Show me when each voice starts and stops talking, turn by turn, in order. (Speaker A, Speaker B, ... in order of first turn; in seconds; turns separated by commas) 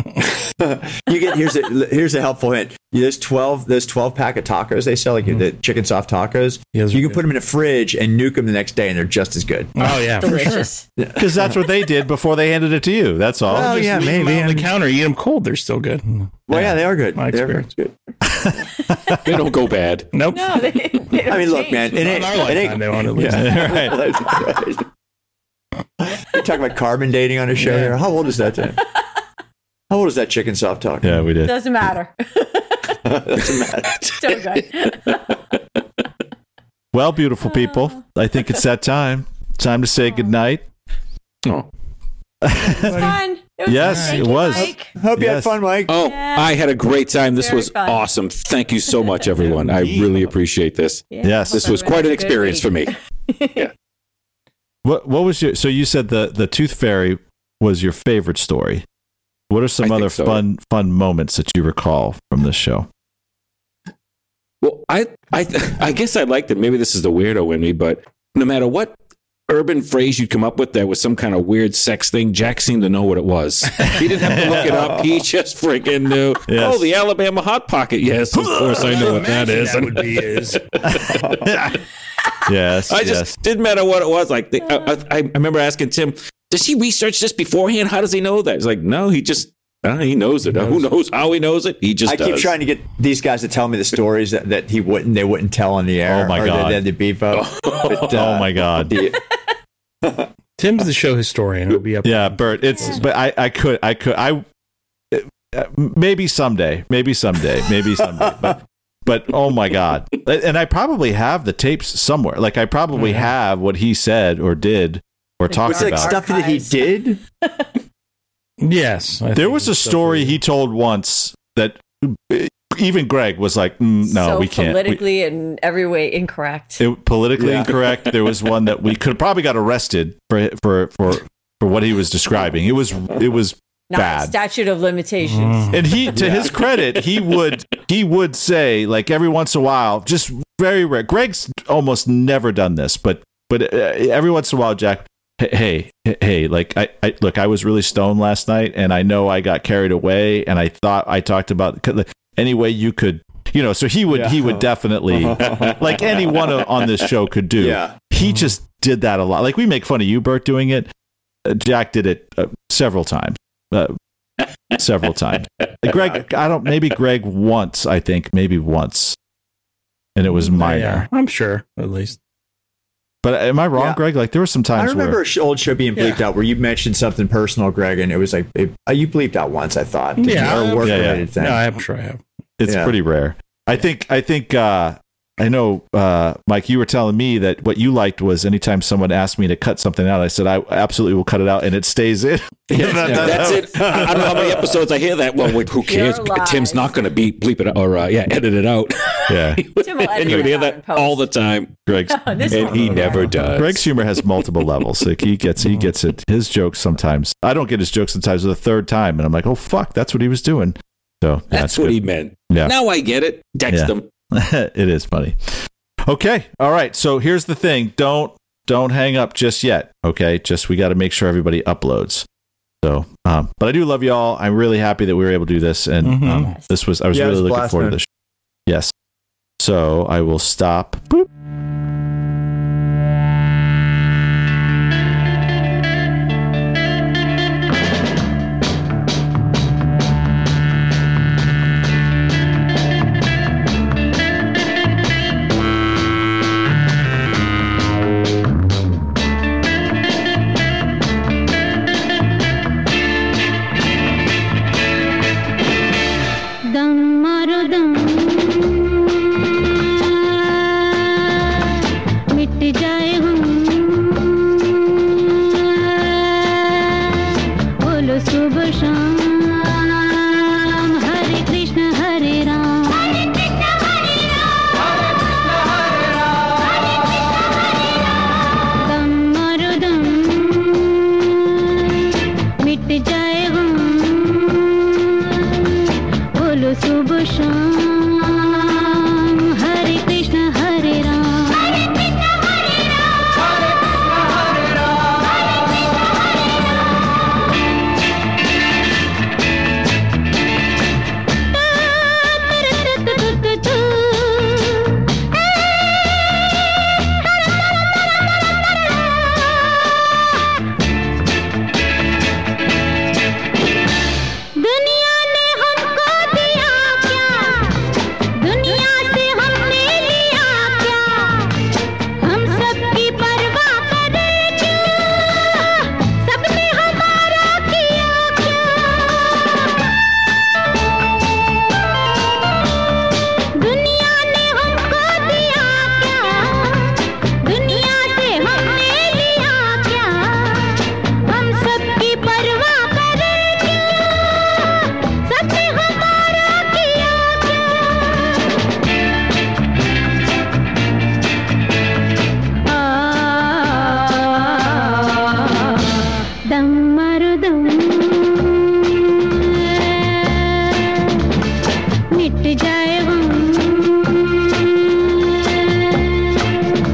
Speaker A: 0.5-9.7, Speaker B: 6.7-7.2, Speaker B: 9.8-10.7, Speaker C: 9.8-10.8, Speaker A: 11.0-11.6, Speaker D: 11.2-13.8, Speaker A: 13.5-14.7, Speaker B: 13.5-16.3, Speaker A: 16.5-17.9, Speaker B: 17.1-17.7, Speaker E: 19.2-20.1, Speaker B: 20.1-20.8, Speaker C: 20.3-22.5, Speaker A: 21.3-24.9, Speaker B: 21.9-23.7, Speaker D: 23.3-24.1, Speaker A: 26.2-28.8, Speaker B: 27.6-28.0, Speaker A: 29.9-31.2, Speaker D: 31.0-31.6, Speaker C: 31.4-33.0, Speaker A: 33.0-34.1, Speaker C: 34.2-35.3, Speaker D: 36.9-40.6, Speaker C: 37.5-38.0, Speaker D: 42.4-43.0, Speaker C: 42.6-44.9, Speaker B: 42.8-43.2, Speaker D: 43.7-45.6, Speaker B: 43.8-44.6, Speaker A: 45.0-46.0, Speaker E: 45.9-53.0, Speaker C: 46.0-46.6, Speaker C: 47.4-48.1, Speaker C: 48.9-49.2, Speaker B: 49.6-50.2, Speaker C: 51.1-53.7, Speaker D: 51.2-51.8, Speaker D: 54.8-58.8, Speaker D: 59.5-62.9, Speaker E: 59.8-60.4, Speaker E: 64.6-69.0, Speaker E: 69.5-81.4, Speaker D: 74.2-75.0, Speaker D: 76.5-76.9, Speaker D: 78.3-79.0, Speaker B: 78.8-80.6, Speaker D: 81.4-81.8, Speaker D: 82.5-83.4, Speaker E: 82.9-92.5, Speaker B: 90.5-90.8, Speaker A: 92.0-99.2, Speaker D: 96.1-96.8, Speaker E: 97.3-98.1, Speaker D: 98.1-98.9, Speaker B: 100.6-103.0, Speaker D: 102.0-104.4, Speaker C: 102.7-103.0, Speaker D: 105.1-116.2, Speaker B: 113.0-113.3, Speaker C: 115.5-117.7, Speaker A: 115.7-117.2, Speaker B: 118.6-120.4, Speaker D: 119.3-125.0, Speaker C: 124.0-126.8, Speaker D: 126.8-134.3, Speaker A: 127.4-127.7, Speaker C: 133.9-136.2, Speaker B: 135.2-135.8, Speaker D: 135.7-160.9, Speaker A: 154.1-154.6, Speaker A: 155.2-155.8, Speaker A: 157.6-157.9, Speaker D: 161.4-163.9, Speaker D: 164.7-169.2, Speaker A: 166.0-166.2, Speaker D: 170.2-171.1, Speaker B: 170.5-172.2, Speaker D: 173.2-175.2, Speaker A: 173.8-174.0, Speaker A: 174.8-181.6, Speaker B: 176.0-176.2, Speaker B: 180.2-182.2, Speaker D: 180.8-181.3, Speaker D: 182.6-194.4, Speaker A: 182.7-182.9, Speaker A: 192.7-194.2, Speaker E: 193.1-201.8, Speaker C: 195.8-197.0, Speaker D: 199.3-199.6, Speaker C: 199.7-201.3, Speaker D: 201.9-212.7, Speaker C: 202.1-203.6, Speaker E: 202.5-203.9, Speaker E: 211.5-214.1, Speaker D: 213.7-222.2, Speaker D: 222.8-228.1, Speaker B: 226.0-226.6, Speaker A: 227.1-228.0, Speaker D: 228.7-228.9, Speaker D: 229.6-231.3, Speaker F: 256.7-261.8, Speaker F: 262.3-273.7, Speaker F: 275.5-276.5, Speaker F: 278.7-281.9, Speaker F: 282.6-285.4, Speaker F: 286.3-292.1, Speaker F: 301.7-305.0, Speaker F: 309.4-309.6, Speaker F: 314.6-321.6, Speaker F: 322.2-329.9, Speaker F: 333.5-348.3, Speaker F: 352.7-355.8, Speaker F: 356.4-359.1, Speaker F: 359.9-360.9, Speaker F: 362.1-366.2